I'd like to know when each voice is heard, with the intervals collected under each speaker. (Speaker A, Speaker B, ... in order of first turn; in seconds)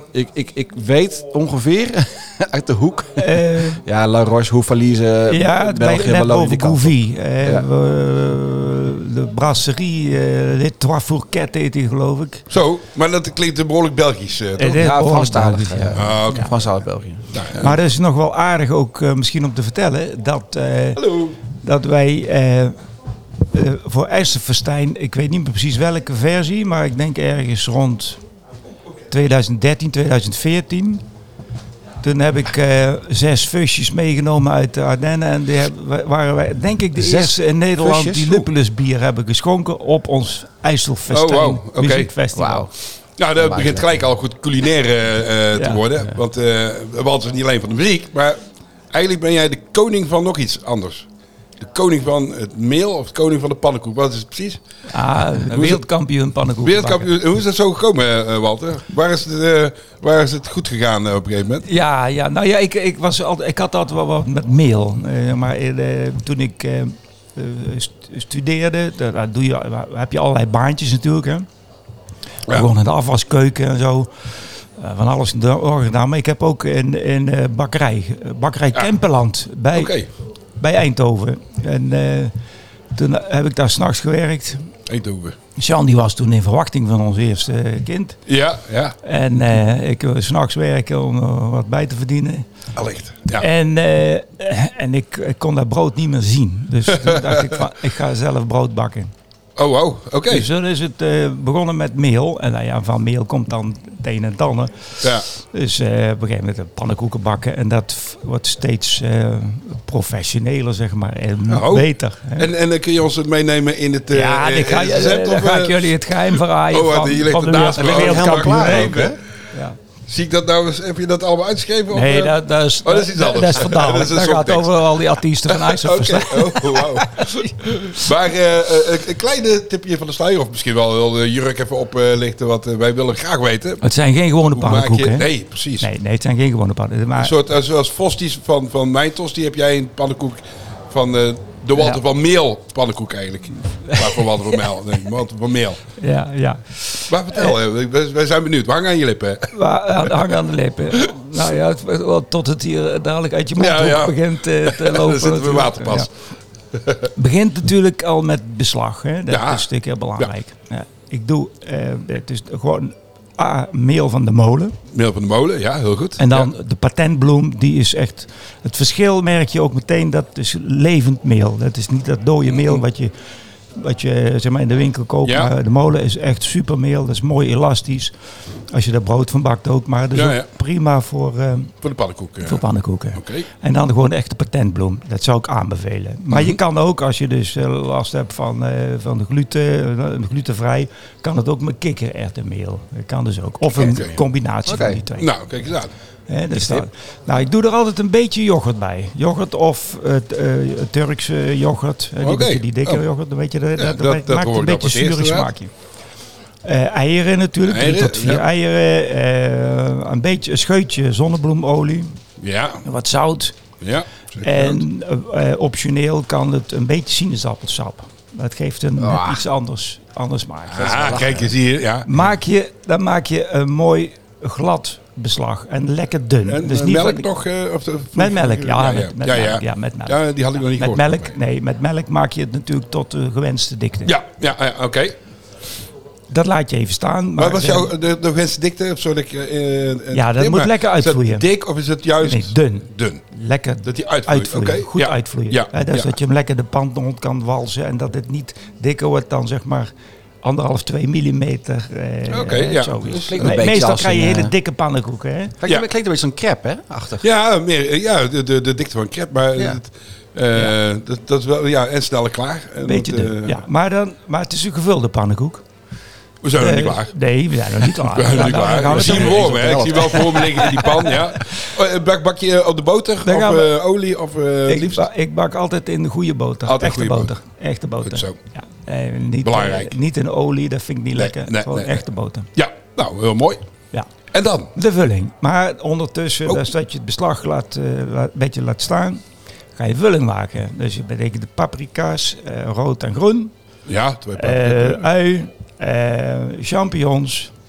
Speaker A: 0.1-7.7, 14.8-17.3, 37.0-38.5, 42.3-42.7, 43.4-44.0, 117.8-119.2, 194.7-195.0, 219.0-219.4, 220.7-221.5, 253.3-254.5, 255.6-257.2, 268.7-271.0
Speaker B: 3.2-3.8, 5.3-12.4, 14.6-16.5, 17.6-22.7, 23.5-28.2, 29.1-31.0, 32.0-42.7, 45.5-45.8, 54.9-57.1, 61.6-71.5, 72.5-79.9, 80.6-82.3, 82.9-84.7, 85.5-88.2, 89.0-92.5, 93.4-99.1, 100.3-112.5, 114.1-119.8, 121.9-128.0, 133.8-135.3, 135.8-137.3, 143.8-144.6, 146.0-147.5, 149.5-156.1, 157.1-164.8, 166.2-173.1, 173.7-178.1, 178.7-181.7, 182.4-195.3, 196.3-205.7, 206.6-212.2, 212.8-213.6, 214.4-221.4, 222.0-227.3, 228.1-230.2, 230.7-234.1, 236.3-237.9, 240.1-241.4, 242.2-249.9, 250.4-255.5, 262.8-265.6, 266.6-270.8, 273.2-273.7, 274.7-282.5, 284.7-289.2, 289.8-293.5, 294.4-297.5
Speaker C: 12.5-14.8, 15.9-16.6, 17.3-17.8, 20.9-21.4, 41.1-42.1, 43.2-48.4, 48.9-51.1, 51.6-54.6, 55.4-55.9, 56.6-61.6, 79.7-80.1, 84.9-85.4, 88.3-89.0, 92.7-93.5, 96.9-97.6, 99.6-100.5, 111.5-116.0, 116.7-119.2, 120.0-124.8, 125.5-133.8, 134.5-135.9, 137.2-145.8, 147.1-150.3, 153.6-156.1, 156.7-157.1, 159.3-159.7, 164.9-166.5, 172.5-172.8, 175.2-175.5, 180.1-180.5, 181.8-182.6, 183.2-183.4, 186.3-186.6, 193.8-194.1, 195.2-195.9, 202.2-203.0, 203.8-205.5, 207.6-208.4, 212.4-212.8, 213.8-214.8, 220.7-222.2, 226.5-231.3, 234.1-235.2, 237.4-243.2, 243.8-246.1, 252.3-253.6, 257.2-263.6, 266.4-267.1, 267.8-275.1, 276.6-277.3, 278.0-278.4, 279.4-280.0, 281.1-282.0, 282.6-283.6, 284.3-284.7, 293.9-295.1